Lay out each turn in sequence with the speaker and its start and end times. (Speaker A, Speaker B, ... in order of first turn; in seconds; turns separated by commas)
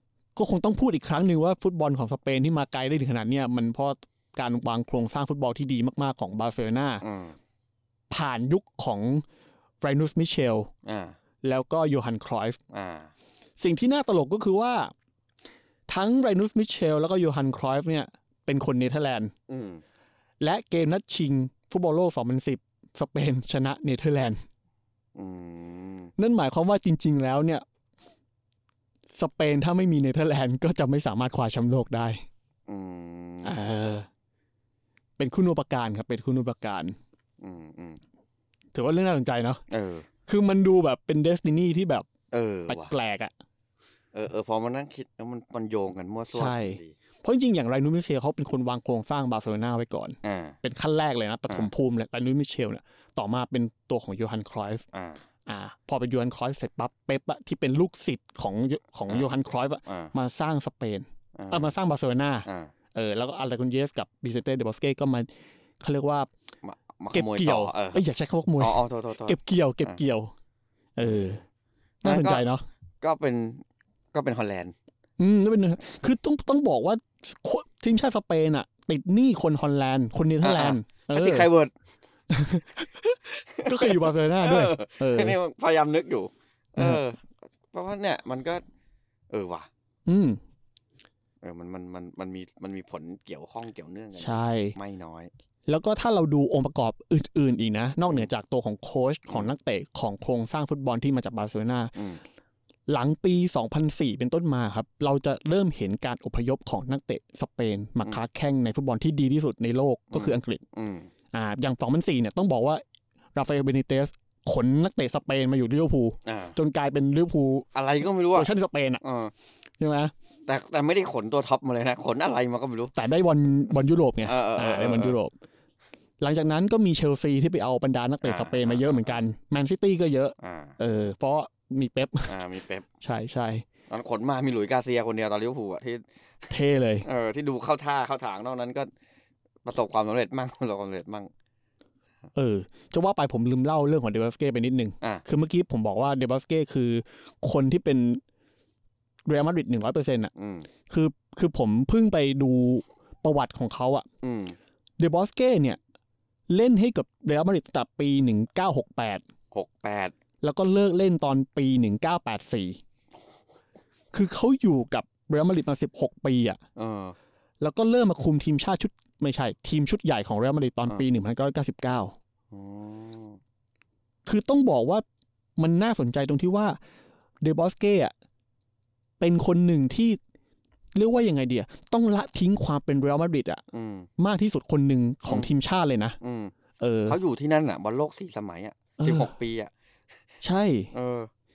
Speaker A: 0.4-7.0, Speaker B: 7.0-7.4, Speaker A: 8.1-9.2, Speaker A: 9.8-10.7, Speaker B: 10.8-11.2, Speaker A: 11.4-12.6, Speaker B: 12.7-13.1, Speaker A: 13.6-14.9, Speaker A: 15.9-19.3, Speaker B: 19.5-19.8, Speaker A: 20.4-24.4, Speaker B: 25.2-26.1, Speaker A: 26.2-27.6, Speaker A: 29.2-32.2, Speaker B: 32.7-33.6, Speaker A: 33.4-34.1, Speaker A: 35.2-37.0, Speaker B: 37.4-38.0, Speaker A: 38.7-39.6, Speaker B: 39.7-40.1, Speaker A: 40.3-42.1, Speaker B: 42.3-42.9, Speaker A: 42.7-43.3, Speaker B: 44.1-47.0, Speaker A: 46.3-54.8, Speaker B: 50.2-50.6, Speaker B: 54.9-55.2, Speaker A: 55.5-65.3, Speaker B: 59.9-60.1, Speaker B: 61.4-61.7, Speaker B: 62.5-62.7, Speaker A: 65.8-66.3, Speaker B: 66.6-68.0, Speaker A: 67.1-70.3, Speaker B: 68.6-70.0, Speaker A: 71.0-71.4, Speaker A: 72.0-72.7, Speaker B: 72.0-72.5, Speaker B: 73.0-74.7, Speaker A: 75.2-81.5, Speaker B: 80.4-81.7, Speaker A: 82.3-85.4, Speaker B: 83.6-88.6, Speaker B: 89.3-89.7, Speaker A: 90.1-90.4, Speaker B: 91.4-95.3, Speaker A: 94.2-94.8, Speaker A: 95.7-102.0, Speaker B: 102.0-102.2, Speaker A: 102.9-110.6, Speaker B: 110.1-111.1, Speaker A: 111.3-112.8, Speaker A: 113.3-117.7, Speaker B: 116.2-116.6, Speaker B: 117.7-118.5, Speaker A: 118.3-119.0, Speaker B: 119.0-119.3, Speaker A: 119.8-120.1, Speaker B: 120.5-122.9, Speaker A: 123.0-125.3, Speaker B: 124.2-125.1, Speaker A: 126.2-132.4, Speaker B: 128.2-129.2, Speaker B: 130.4-130.8, Speaker B: 132.3-132.8, Speaker A: 133.0-133.7, Speaker B: 133.9-136.1, Speaker A: 136.5-137.1, Speaker B: 137.0-138.9, Speaker B: 139.7-141.3, Speaker A: 142.3-148.2, Speaker A: 149.3-150.3, Speaker B: 150.4-150.7, Speaker A: 150.9-154.1, Speaker B: 154.2-154.6, Speaker A: 155.0-155.8, Speaker A: 156.5-159.2, Speaker B: 159.5-160.1, Speaker A: 160.4-162.8, Speaker A: 164.1-166.6, Speaker B: 166.8-167.2, Speaker A: 167.6-172.2, Speaker B: 172.5-173.4, Speaker A: 174.3-175.0, Speaker A: 175.6-176.8, Speaker A: 177.4-178.1, Speaker A: 179.2-180.2, Speaker A: 180.9-183.6, Speaker B: 183.7-184.1, Speaker A: 184.2-186.2, Speaker B: 186.2-186.5, Speaker A: 186.8-187.2, Speaker B: 187.1-189.7, Speaker A: 189.0-189.3, Speaker A: 190.4-190.9, Speaker B: 190.9-191.3